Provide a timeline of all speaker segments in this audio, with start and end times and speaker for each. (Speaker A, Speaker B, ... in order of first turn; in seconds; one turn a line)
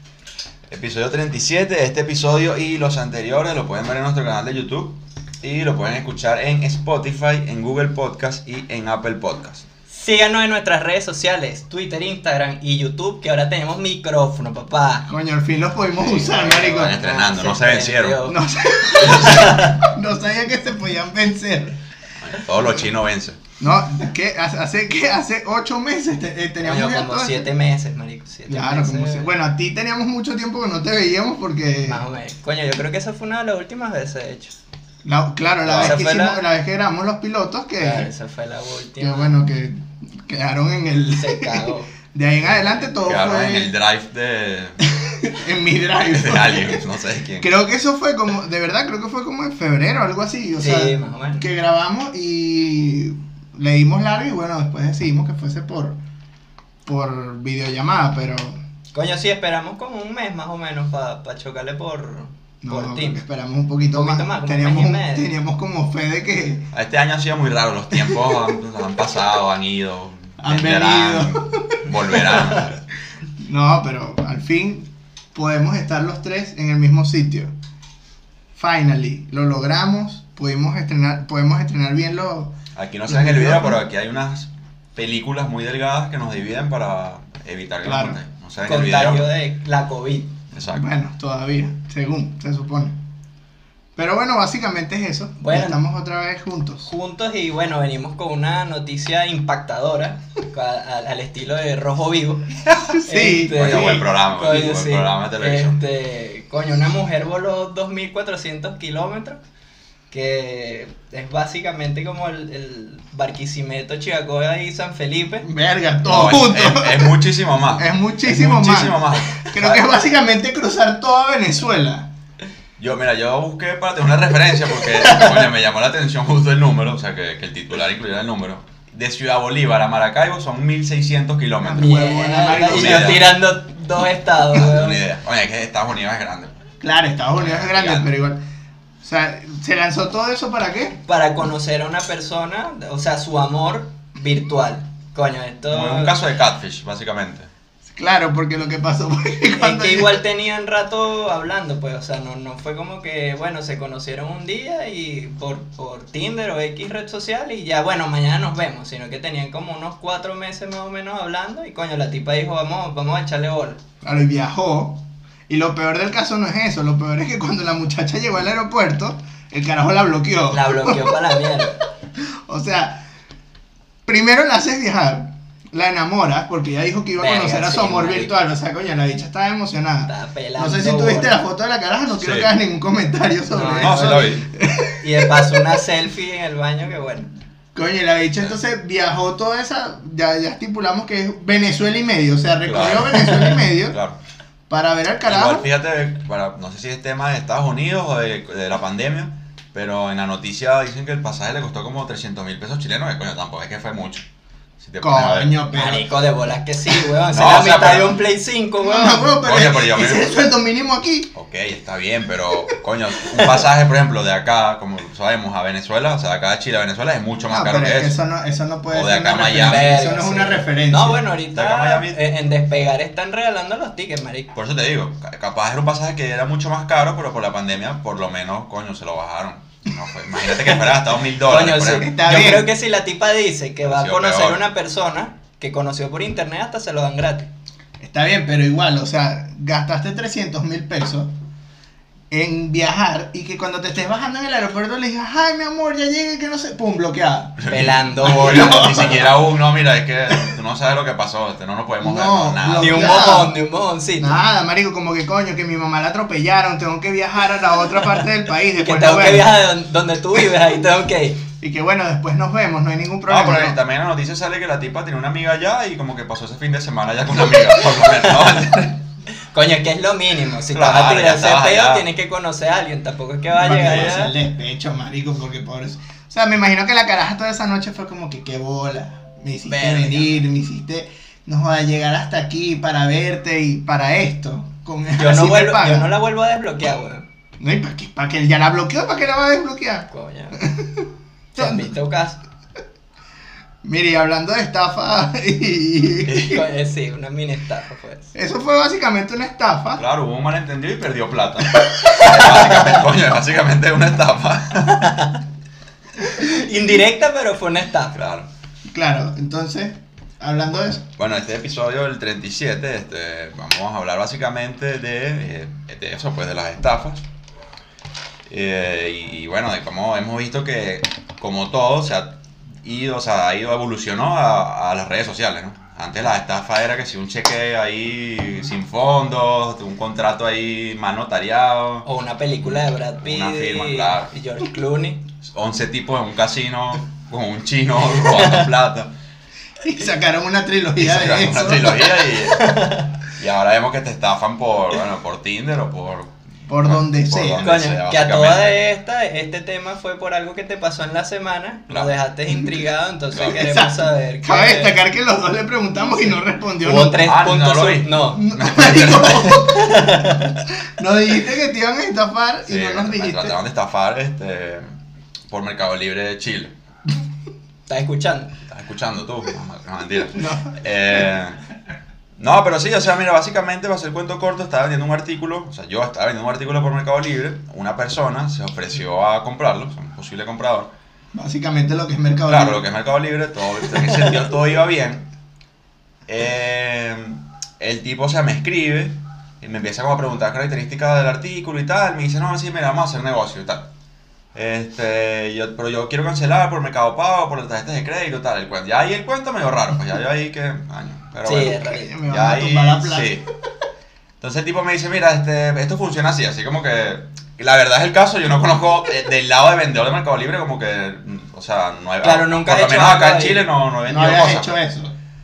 Speaker A: 0.7-9.6
Speaker B: 9.9-15.1
Speaker C: 15.1-16.9
Speaker B: 16.0-18.4
Speaker A: 16.6-18.3
Speaker C: 18.2-21.8
Speaker A: 18.9-19.7
Speaker B: 19.1-19.8
Speaker A: 22.2-23.4
Speaker C: 23.6-27.5
Speaker B: 26.6-29.3
Speaker C: 28.5-32.0
Speaker B: 31.8-34.5
Speaker C: 35.0-38.1
Speaker A: 35.6-36.0
Speaker B: 35.8-36.4
Speaker B: 37.8-39.4
Speaker C: 39.0-43.7
Speaker B: 41.1-41.9
Speaker A: 42.5-44.8
Speaker C: 44.8-46.8
Speaker A: 46.1-47.5
Speaker C: 47.4-56.0
Speaker B: 50.6-51.5
Speaker C: 56.8-58.6
Speaker B: 58.9-63.2
Speaker C: 62.6-66.7
Speaker B: 63.8-65.3
Speaker A: 66.7-72.8
Speaker C: 70.4-72.6
Speaker C: 73.4-77.5
Speaker C: 78.5-82.5
Speaker A: 82.8-89.3
Speaker C: 83.1-83.8
Speaker C: 87.8-88.2
Speaker B: 88.6-90.3
Speaker A: 90.5-90.9
Speaker C: 90.7-93.0
Speaker C: 94.0-96.9
Speaker B: 95.4-95.8
Speaker B: 96.8-109.4
Speaker C: 102.7-104.0
Speaker A: 103.5-105.8
Speaker B: 110.1-115.5
Speaker C: 115.4-117.2
Speaker A: 116.0-119.9
Speaker C: 117.8-122.1
Speaker A: 122.8-133.3
Speaker C: 131.6-133.2
Speaker B: 131.8-135.0
Speaker A: 134.5-136.6
Speaker C: 136.8-138.4
Speaker A: 137.3-138.1
Speaker C: 139.0-141.0
Speaker B: 141.0-146.2
Speaker A: 145.7-147.5
Speaker C: 147.9-150.2
Speaker B: 149.6-163.8
Speaker C: 164.0-171.2
Speaker B: 170.5-171.8
Speaker C: 172.2-173.1
Speaker C: 174.0-185.6
Speaker B: 177.2-178.3
Speaker B: 180.1-181.4
Speaker A: 182.2-182.5
Speaker B: 183.5-184.4
Speaker A: 183.8-184.4
Speaker B: 185.0-187.3
Speaker C: 187.7-194.0
Speaker A: 192.6-194.2
Speaker C: 194.7-195.7
Speaker A: 195.2-204.2
Speaker A: 204.8-205.6
Speaker C: 205.0-206.1
Speaker B: 205.7-209.3
Speaker A: 207.3-208.2
Speaker C: 208.8-211.3
Speaker A: 209.4-210.3
Speaker A: 211.3-218.2
Speaker C: 213.3-213.7
Speaker C: 217.5-221.2
Speaker A: 218.9-220.0
Speaker B: 219.6-224.5
Speaker A: 221.5-222.2
Speaker A: 224.5-232.1
Speaker B: 230.6-230.8
Speaker B: 231.4-237.5
Speaker C: 231.9-232.7
Speaker A: 233.8-234.6
Speaker C: 238.0-241.3
Speaker C: 242.3-249.3
Speaker A: 247.6-253.2
Speaker B: 247.7-249.3
Speaker C: 252.0-253.6
Speaker B: 252.8-254.4
Speaker C: 254.2-259.5
Speaker B: 258.7-261.4
Speaker C: 261.6-263.8
Speaker A: 263.3-268.9
Speaker B: 268.1-268.6
Speaker B: 269.5-274.3
Speaker A: 270.7-272.1
Speaker C: 273.5-286.1
Speaker B: 279.6-280.4
Speaker B: 285.2-287.2
Speaker C: 287.6-291.9
Speaker B: 290.1-290.6
Speaker B: 291.5-292.4
Speaker C: 293.8-296.6
Speaker B: 296.2-298.3
Speaker C: 298.3-300.0
Speaker A: 300.0-305.2
Speaker B: 305.0-305.4
Speaker B: 306.2-308.1
Speaker A: 308.1-308.5
Speaker C: 308.9-311.1
Speaker A: 311.2-317.2
Speaker A: 318.5-332.1
Speaker B: 332.0-335.2
Speaker A: 332.6-334.3
Speaker A: 335.4-339.1
Speaker B: 338.0-338.7
Speaker C: 339.8-342.1
Speaker A: 341.0-348.8
Speaker B: 342.5-343.1
Speaker C: 346.7-347.6
Speaker B: 347.6-355.0
Speaker A: 351.9-352.1
Speaker C: 353.4-357.2
Speaker B: 356.1-358.4
Speaker A: 357.0-359.7
Speaker C: 358.3-363.6
Speaker B: 359.6-360.5
Speaker A: 362.6-364.9
Speaker A: 365.5-366.7
Speaker B: 367.9-368.5
Speaker A: 368.7-371.6
Speaker C: 370.3-370.8
Speaker A: 372.4-380.9
Speaker C: 381.3-382.8
Speaker A: 382.5-385.3
Speaker A: 386.3-393.9
Speaker A: 394.5-403.4
Speaker B: 401.4-402.1
Speaker C: 401.9-403.4
Speaker A: 404.4-414.7
Speaker B: 412.2-413.6
Speaker C: 414.1-415.1